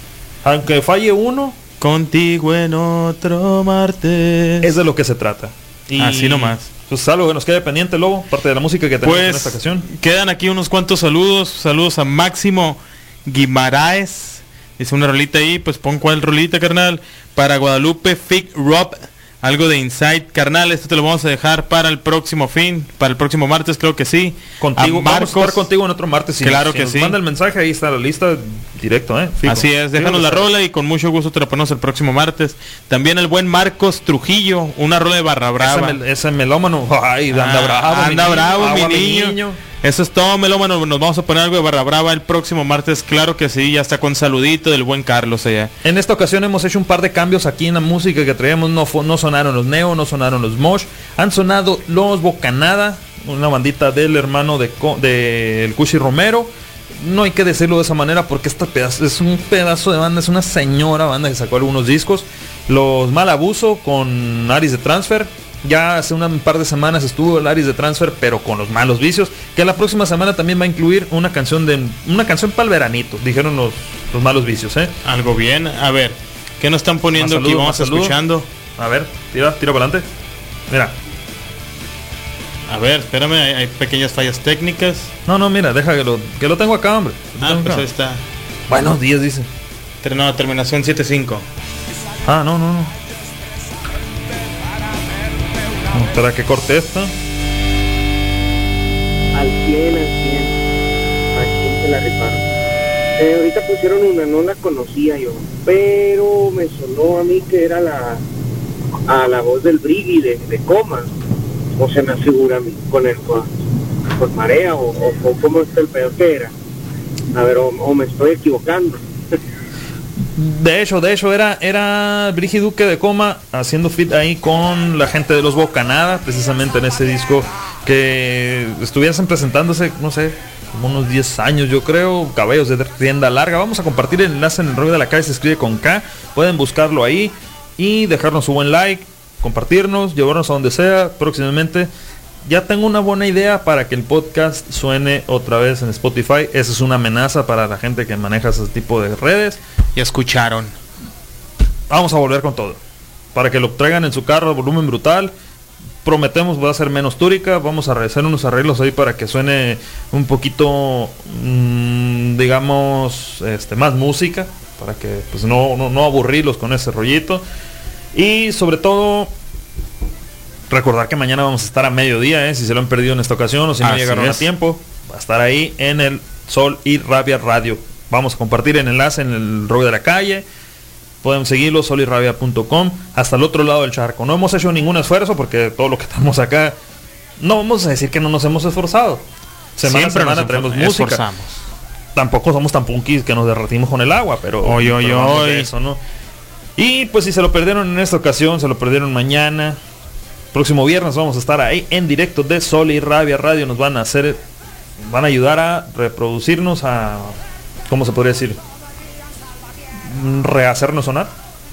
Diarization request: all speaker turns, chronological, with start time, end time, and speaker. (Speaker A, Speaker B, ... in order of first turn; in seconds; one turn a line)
Speaker A: 0.4-1.6
Speaker B: 1.8-4.7
Speaker A: 4.6-9.8
Speaker B: 6.0-6.7
Speaker B: 9.0-25.7
Speaker A: 24.6-30.5
Speaker B: 26.4-27.2
Speaker B: 29.4-36.0
Speaker A: 35.6-39.6
Speaker B: 37.3-45.7
Speaker A: 45.8-74.9
Speaker B: 75.0-78.5
Speaker A: 77.2-78.2
Speaker A: 78.8-80.0
Speaker B: 82.7-85.1
Speaker A: 85.3-87.8
Speaker B: 87.4-88.2
Speaker A: 88.7-89.5
Speaker B: 90.0-91.4
Speaker A: 92.2-92.9
Speaker A: 95.9-97.1
Speaker C: 99.3-100.5
Speaker C: 101.3-102.4
Speaker C: 103.2-108.2
Speaker C: 109.1-111.1
Speaker C: 111.8-113.6
Speaker C: 114.2-116.5
Speaker C: 117.3-119.0
Speaker A: 120.3-141.9
Speaker A: 142.4-149.6
Speaker B: 149.9-150.7
Speaker A: 151.9-152.8
Speaker A: 153.3-155.3
Speaker A: 156.0-167.4
Speaker A: 168.1-169.3
Speaker A: 170.7-180.4
Speaker B: 173.8-174.4
Speaker A: 181.2-186.7
Speaker A: 187.4-189.2
Speaker A: 189.8-191.2
Speaker B: 189.8-191.5
Speaker A: 192.2-196.0
Speaker B: 194.6-195.7
Speaker A: 196.8-199.8
Speaker A: 200.5-204.4
Speaker A: 205.1-207.3
Speaker A: 207.9-208.6
Speaker A: 210.1-211.3